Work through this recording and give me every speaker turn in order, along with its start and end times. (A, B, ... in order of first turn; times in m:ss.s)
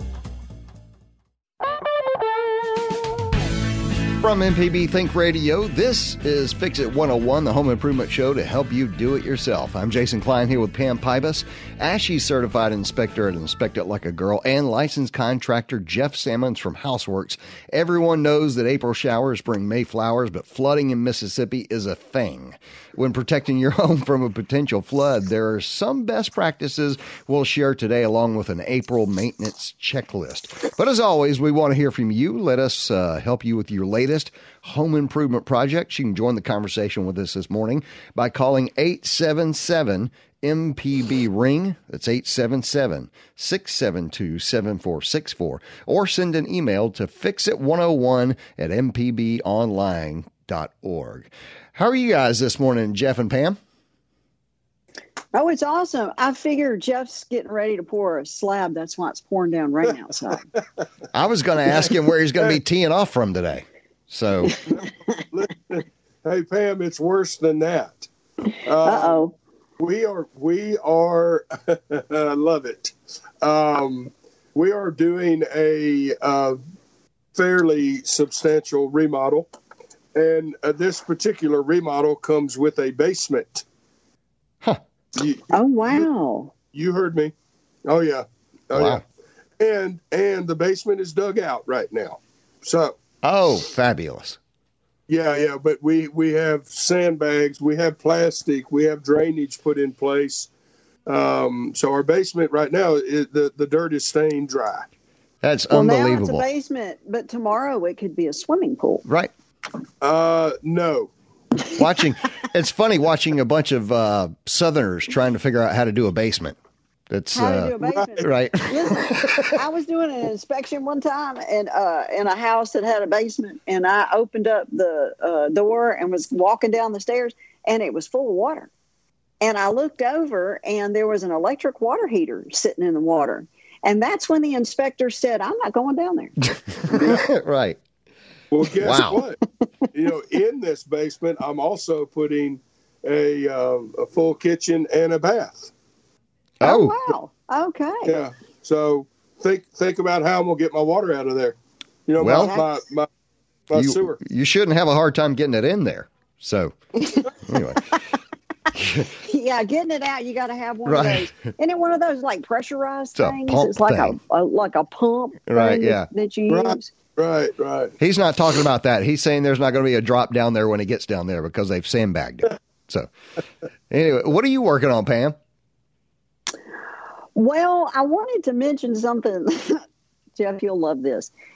0:04.2-0:53.6 A
0:55.3-1:00.4 B
1:01.1-1:04.6 A
1:04.6-1:08.1 C
1:08.6-1:09.2 C
1:08.8-1:09.3 B
1:09.8-1:16.6 C
1:17.3-1:19.5 C
1:20.1-1:23.6 C
1:25.2-1:26.0 C
1:25.5-1:26.5 B
1:26.7-1:27.3 C
1:27.9-1:29.0 C
1:28.7-1:29.0 A
1:29.6-1:33.0 C
1:33.2-1:34.4 A
1:35.1-1:40.5 C
1:41.1-1:44.9 C
1:45.4-1:46.4 A
1:45.7-1:49.0 B
1:49.0-1:49.3 A
1:50.0-1:51.1 C
1:51.7-1:56.6 A
1:57.1-1:59.6 A
1:57.3-2:08.7 B
2:09.4-2:16.3 B
2:16.7-2:17.8 A
2:16.9-2:17.3 C
2:18.5-2:19.4 C
2:18.8-2:19.2 A
2:19.9-2:25.7 C
2:26.6-2:27.1 A
2:26.6-2:28.1 B
2:28.0-2:33.1 C
2:32.2-2:32.6 A
2:32.3-2:32.7 B
2:33.7-2:34.2 C
2:33.7-2:36.8 A
2:37.0-2:37.9 B
2:37.4-2:37.9 A
2:38.7-2:39.1 A
2:39.2-2:46.9 B
2:40.8-2:41.5 A
2:43.2-2:44.2 A
2:45.4-2:46.1 A
2:46.5-2:47.9 C
2:48.0-2:53.1 A
2:53.9-2:55.4 A
2:57.3-2:59.8 B
3:00.4-3:01.3 B